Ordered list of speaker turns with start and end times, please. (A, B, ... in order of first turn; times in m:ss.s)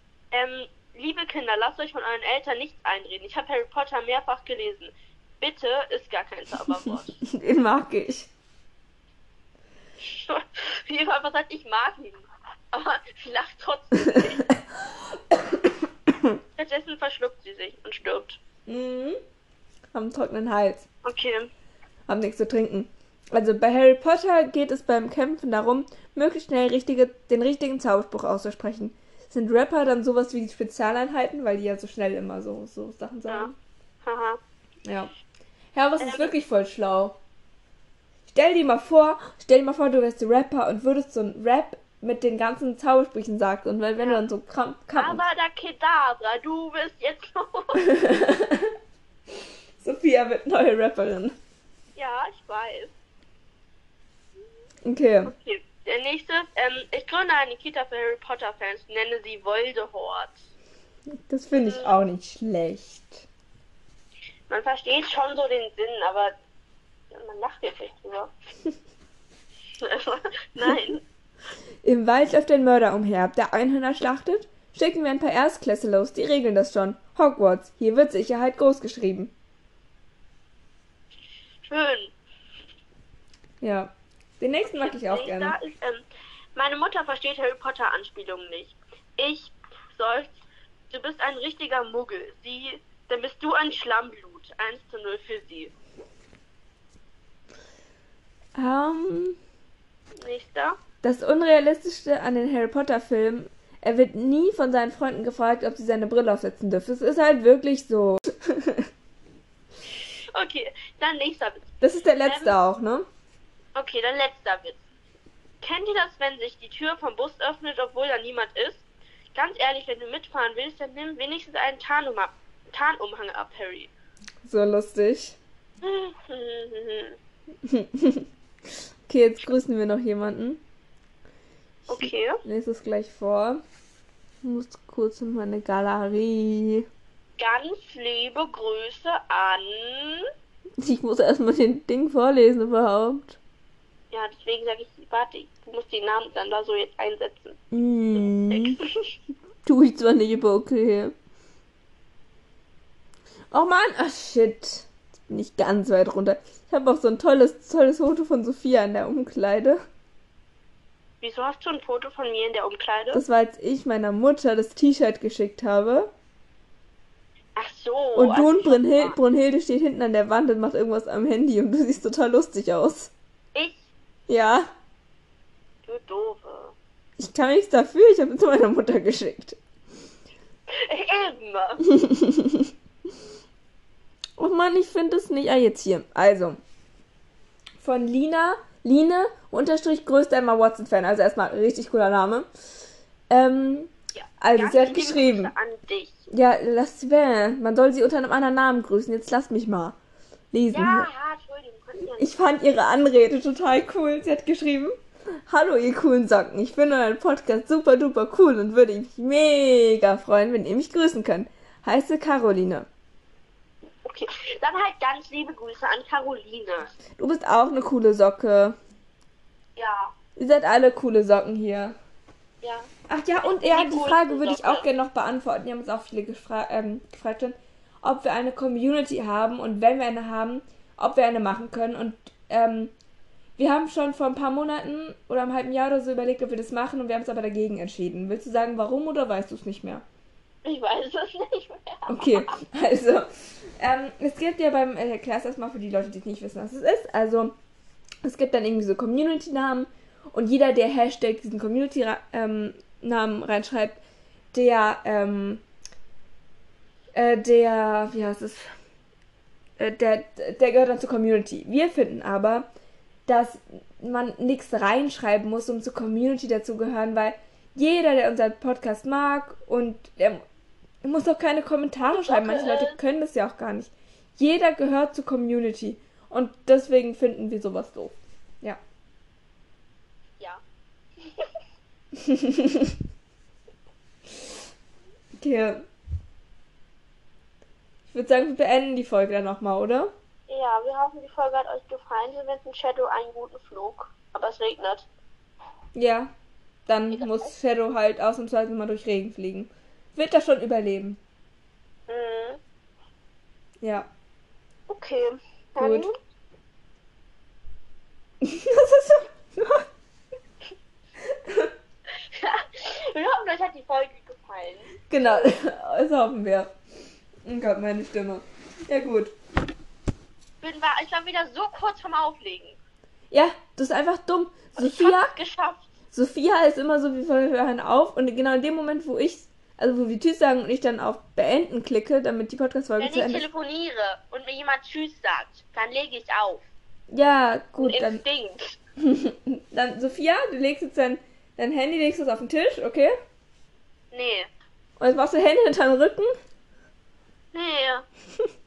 0:00.3-0:07.2 A
0:07.2-0:08.3 B
0:10.0-0:14.5 A
0:15.3-0:15.6 B
0:16.6-0:18.4 A
0:18.7-0:19.2 B
0:19.9-0:20.8 B
0:21.0-0:21.5 A
0:22.1-0:33.5 B
0:34.0-0:34.4 A
0:34.8-0:35.1 B
0:35.7-0:37.2 B
0:36.0-0:36.3 A
0:38.3-0:45.2 B
0:44.0-0:44.2 A
0:45.0-0:47.9 A
0:47.8-0:48.7 B
0:49.8-0:51.3 B
0:51.9-0:52.9 A
0:54.8-0:55.3 B
0:55.2-1:00.4 A
1:01.3-1:03.2 B
1:01.6-1:01.9 A
1:04.5-1:06.3 A
1:07.1-1:08.3 A
1:09.8-1:11.0 A
1:11.8-1:19.3 B
1:21.7-1:22.1 A
1:23.6-1:25.6 B
1:24.6-1:35.7 A
1:38.5-1:39.4 B
1:40.2-1:40.8 A
1:41.0-1:48.8 B
1:50.0-1:51.7 A
1:51.8-1:53.0 B
1:52.2-1:52.6 A
1:53.7-1:54.8 A
1:55.6-2:03.9 A
2:04.4-2:05.4 B
2:05.8-2:07.2 A
2:07.7-2:08.2 B
2:09.1-2:10.6 B
2:11.8-2:13.6 B
2:11.9-2:12.4 A
2:14.4-2:16.8 B
2:17.4-2:20.3 A
2:20.8-2:23.4 B
2:24.1-2:27.6 A
2:27.7-2:28.8 B
2:28.1-2:29.1 A
2:29.6-2:31.1 B
2:33.5-2:39.8 B
2:41.2-2:43.2 A
2:43.1-2:46.1 B
2:47.6-2:49.2 A
2:48.1-2:53.1 B
2:53.5-2:53.9 A
2:54.3-2:54.7 B
2:55.8-2:56.7 A
2:57.2-2:59.6 B
3:00.7-3:01.8 A
3:01.9-3:02.7 B
3:04.4-3:06.6 B
3:07.8-3:12.5 B
3:13.3-3:15.5 B
3:14.1-3:16.2 A
3:16.3-3:20.0 B
3:20.5-3:21.1 B
3:20.7-3:22.4 A
3:22.2-3:24.9 B
3:25.5-3:32.9 B
3:34.0-3:36.9 A
3:37.2-3:38.8 B
3:39.8-3:40.1 A
3:40.4-3:42.0 B
3:42.6-3:42.9 A
3:43.1-3:52.9 B
3:43.4-3:44.9 A
3:53.6-4:00.0 B
4:00.6-4:02.5 A
4:02.1-4:03.2 B
4:03.8-4:07.5 B
4:08.2-4:14.0 B
4:14.5-4:15.6 B
4:17.1-4:18.6 B
4:19.8-4:22.7 B
4:23.3-4:30.4 B
4:31.0-4:38.8 B
4:32.1-4:33.0 A
4:41.2-4:41.5 A
4:42.2-4:42.9 B
4:45.4-4:45.8 B
4:48.1-4:50.1 B
4:50.5-4:55.1 A
4:55.9-4:56.3 B
4:56.9-5:01.2 B
4:57.1-4:57.5 A
5:02.1-5:02.6 A
5:03.8-5:04.1 B
5:04.9-5:06.1 A
5:05.8-5:06.1 B
5:08.4-5:09.8 B
5:11.3-5:11.7 B
5:12.3-5:15.5 A
5:15.1-5:16.7 B
5:17.4-5:19.3 B
5:20.6-5:22.8 A
5:23.3-5:25.3 B
5:24.8-5:25.9 A
5:26.1-5:33.5 B
5:33.0-5:36.7 A
5:37.1-5:38.2 B
5:37.8-5:38.8 A
5:39.0-5:43.1 B
5:44.1-5:44.5 A
5:45.0-5:46.3 B
5:47.5-5:48.0 A